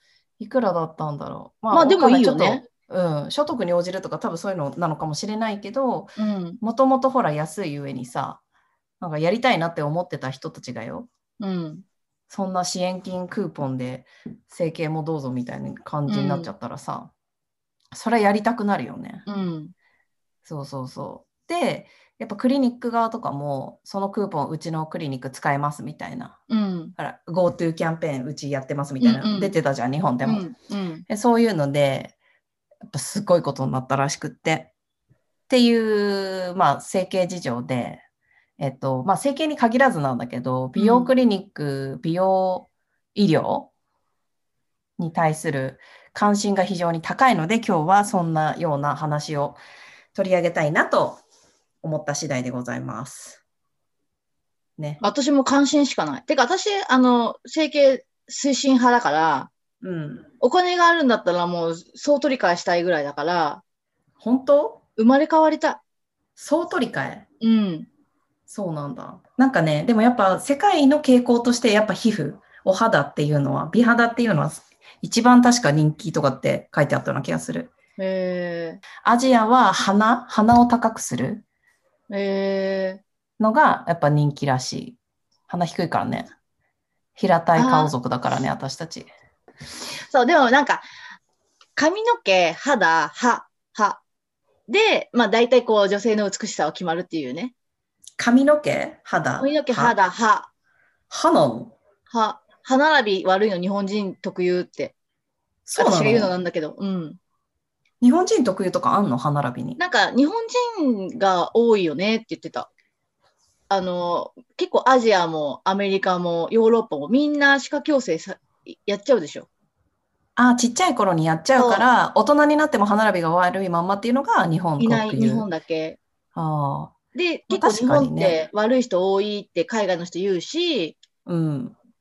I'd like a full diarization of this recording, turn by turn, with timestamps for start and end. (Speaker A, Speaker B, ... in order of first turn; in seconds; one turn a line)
Speaker A: 0.4-8.4
Speaker B: 1.7-2.6
Speaker B: 6.2-6.6
Speaker A: 9.0-11.1
Speaker B: 11.4-11.8
Speaker A: 12.3-17.1
Speaker B: 16.1-16.5
Speaker A: 17.9-19.3
Speaker B: 19.2-19.7
Speaker A: 20.4-26.4
Speaker B: 26.5-26.9
Speaker A: 27.0-30.5
Speaker B: 29.0-29.5
Speaker B: 30.2-31.0
Speaker A: 31.1-32.1
Speaker A: 32.8-34.7
Speaker A: 35.5-38.0
Speaker A: 38.6-43.7
Speaker B: 40.8-41.1
Speaker A: 45.0-49.6
Speaker A: 50.1-51.2
Speaker A: 51.8-53.4
Speaker B: 55.0-59.5
Speaker A: 59.8-60.3
Speaker B: 60.4-63.6
Speaker A: 64.2-64.8
Speaker B: 65.0-65.8
Speaker A: 66.4-67.2
Speaker B: 67.4-67.9
Speaker A: 68.5-77.7
Speaker B: 78.0-78.8
Speaker A: 79.0-81.4
Speaker B: 82.1-83.0
Speaker A: 83.4-86.3
Speaker A: 87.2-89.1
Speaker B: 87.5-87.9
Speaker B: 90.1-90.8
Speaker B: 91.8-94.0
Speaker B: 94.7-97.5
Speaker A: 98.2-99.9
Speaker B: 99.4-100.5
Speaker A: 101.1-101.7
Speaker B: 102.1-104.9
Speaker A: 105.7-106.3
Speaker B: 105.8-107.2
Speaker A: 108.0-109.8
Speaker B: 109.8-112.7
Speaker B: 113.7-119.5
Speaker A: 120.3-125.5
Speaker B: 121.5-121.9
Speaker B: 124.8-126.0
Speaker A: 126.3-126.9
Speaker B: 127.1-130.9
Speaker A: 127.5-128.4
Speaker A: 131.2-131.8